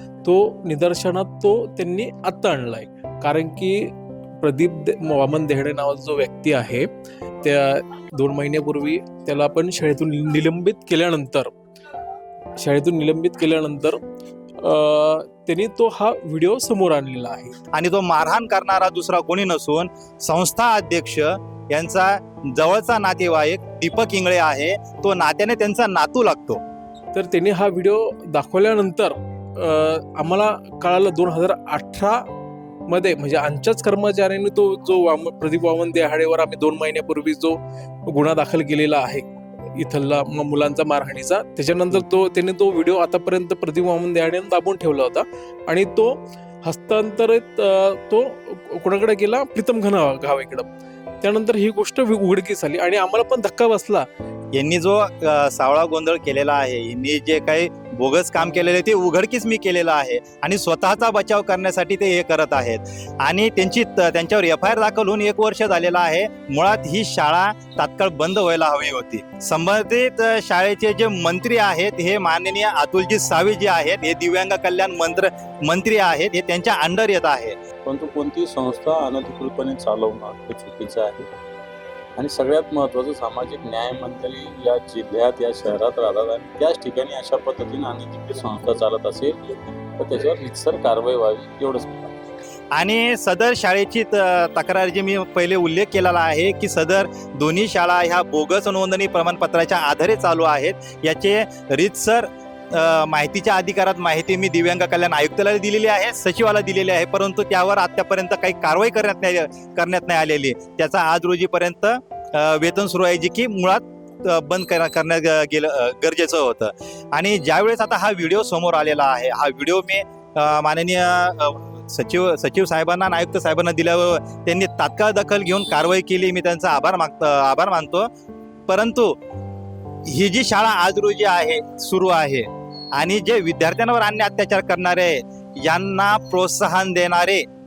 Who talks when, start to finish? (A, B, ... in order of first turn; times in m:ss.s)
0:00.2-0:06.9 A
0:07.4-0:11.5 A
0:12.6-0:14.0 A
0:14.6-0:17.6 A
0:17.7-0:26.6 B
0:27.1-0:32.2 A
0:32.9-0:50.7 A
0:51.2-0:54.0 A
0:54.5-1:17.6 B
1:17.8-1:21.3 C
1:22.2-1:32.1 C
1:32.7-2:08.1 B
2:08.7-2:09.2 B
2:10.1-2:17.4 B